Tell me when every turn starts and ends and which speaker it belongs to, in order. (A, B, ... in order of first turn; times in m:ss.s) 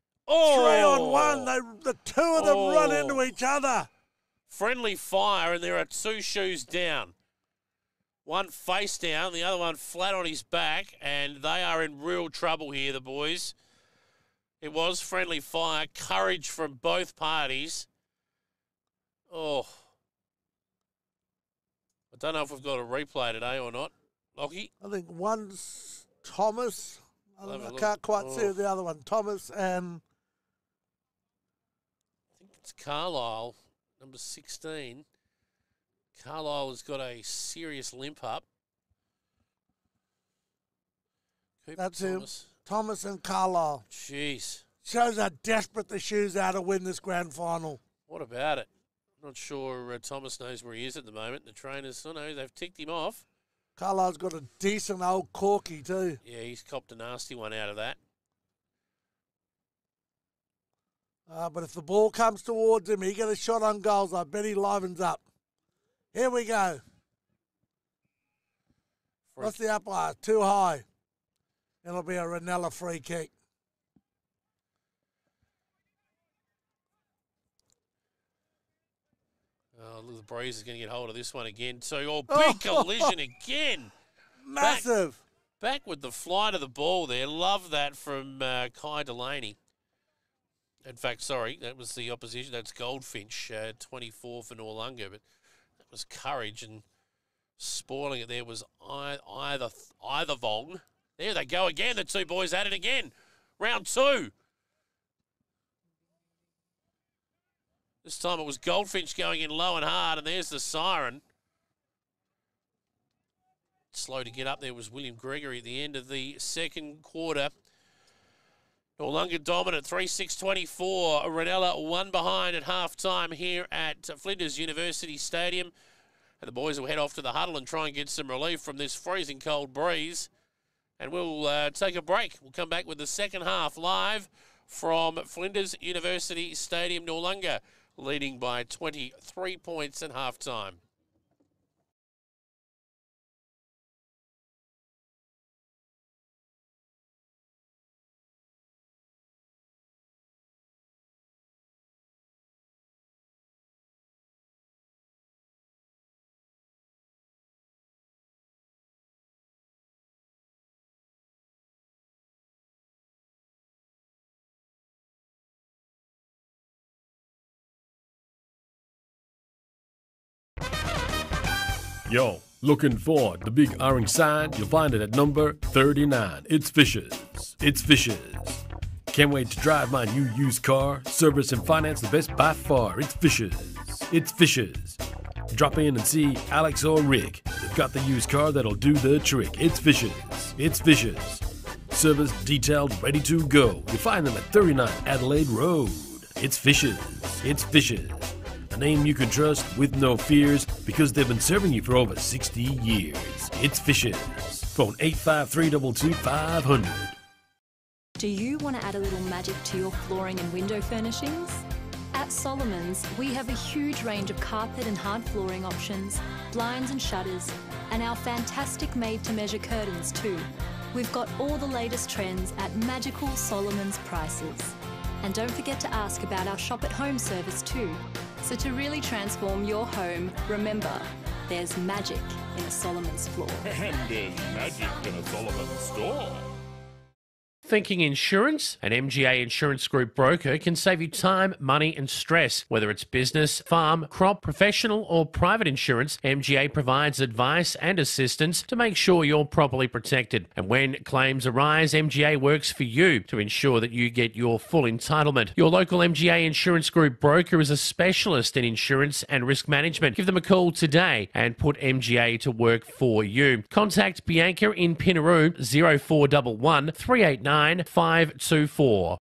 0:00.3-0:01.5 A
0:00.4-0:03.9 B
0:02.4-0:03.2 A
0:04.5-0:07.1 A
0:08.3-0:13.5 A
0:14.6-0:17.9 A
0:19.3-0:19.8 A
0:22.1-0:24.7 A
0:24.8-0:30.0 B
0:27.4-0:28.6 A
0:32.4-0:35.0 A
0:36.2-0:38.4 A
0:41.6-0:42.5 A
0:41.8-0:43.8 B
0:43.9-0:44.6 A
0:44.8-0:47.8 B
0:48.1-0:48.7 A
0:49.2-0:53.2 A
0:53.8-0:56.2 B
0:56.2-0:58.0 A
1:01.3-1:05.2 B
1:06.1-1:06.8 B
1:09.3-1:09.6 A
1:09.4-1:10.9 B
1:11.8-1:13.3 B
1:19.8-1:23.9 A
1:22.3-1:23.2 B
1:24.4-1:25.2 B
1:24.6-1:24.9 A
1:25.6-1:29.6 A
1:30.8-1:35.2 A
1:35.9-1:36.8 A
1:37.6-1:44.3 A
1:48.0-1:51.2 A
1:53.9-1:57.5 A
1:59.0-2:05.7 A
2:06.4-2:10.3 A
2:11.0-2:20.8 A
2:52.1-3:27.2 C
3:28.2-3:53.7 D
3:53.6-3:56.5 E
3:57.7-4:29.2 A